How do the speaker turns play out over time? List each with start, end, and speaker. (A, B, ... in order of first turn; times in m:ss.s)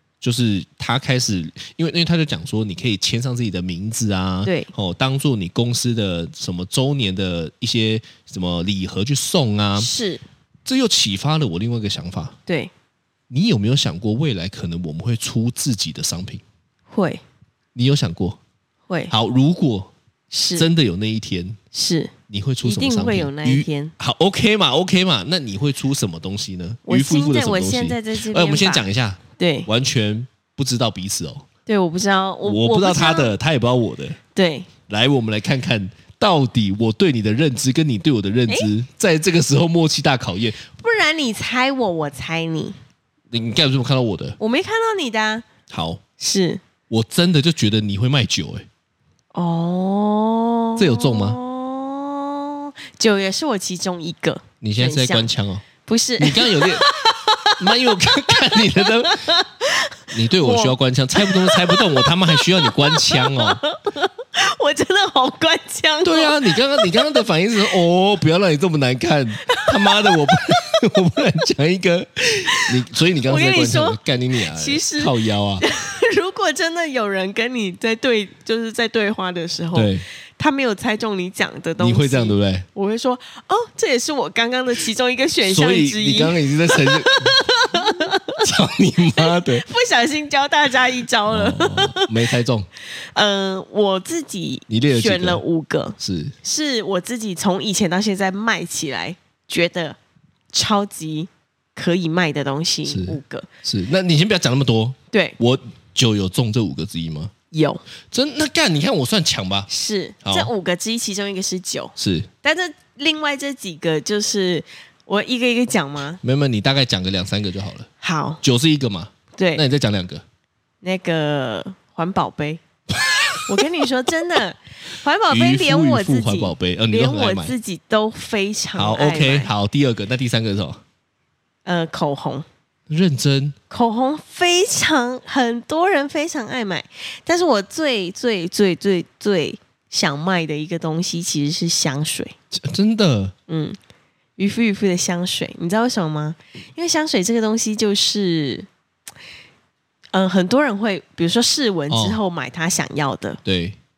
0:00.2-0:09.9 A
0:04.4-0:04.7 B
0:09.8-0:10.2 B
0:10.6-0:12.3 A
0:13.3-0:16.4 A
0:16.9-0:17.2 B
0:17.7-0:18.4 A
0:19.1-0:19.9 A
0:20.3-0:20.7 B
0:20.5-0:21.6 A
0:21.7-0:23.9 B
0:22.3-0:31.4 A
0:26.8-0:28.9 B
0:29.4-0:29.7 B
0:31.7-0:33.3 B
0:32.4-0:34.2 A
0:34.3-0:34.7 B
0:34.9-0:40.6 A
0:40.8-0:42.8 B
0:43.3-0:44.4 A
0:44.4-0:45.5 B
0:45.7-0:46.0 A
0:46.2-0:46.6 B
0:46.9-0:48.7 A
0:49.3-0:55.3 B
0:50.8-0:51.4 A
0:54.6-0:55.6 A
0:55.8-1:07.1 B
0:56.2-0:56.8 A
0:57.6-0:59.2 A
1:00.1-1:03.6 A
1:06.0-1:15.6 A
1:09.5-1:10.4 B
1:13.2-1:28.5 B
1:19.7-1:20.0 A
1:21.8-1:22.7 A
1:25.4-1:29.6 A
1:29.2-1:32.1 B
1:31.3-1:32.7 A
1:33.0-1:40.0 B
1:34.7-1:35.4 A
1:36.0-1:36.3 A
1:40.5-1:43.5 B
1:42.9-1:47.3 A
1:47.5-1:47.8 B
1:48.1-1:49.7 A
1:49.7-1:56.2 B
1:50.2-1:50.5 A
1:52.0-1:52.3 A
1:56.2-1:57.9 A
1:58.0-1:58.4 B
1:58.4-2:00.2 A
1:59.4-1:59.6 B
2:00.8-2:02.6 B
2:03.1-2:03.6 A
2:03.4-2:09.5 B
2:05.3-2:07.5 A
2:08.7-2:10.8 A
2:11.6-2:12.4 B
2:12.9-2:13.6 A
2:13.7-2:22.4 B
2:22.5-2:23.3 A
2:23.5-2:23.8 B
2:24.4-2:28.7 B
2:30.1-2:33.4 B
2:31.9-2:32.2 A
2:33.4-2:33.8 A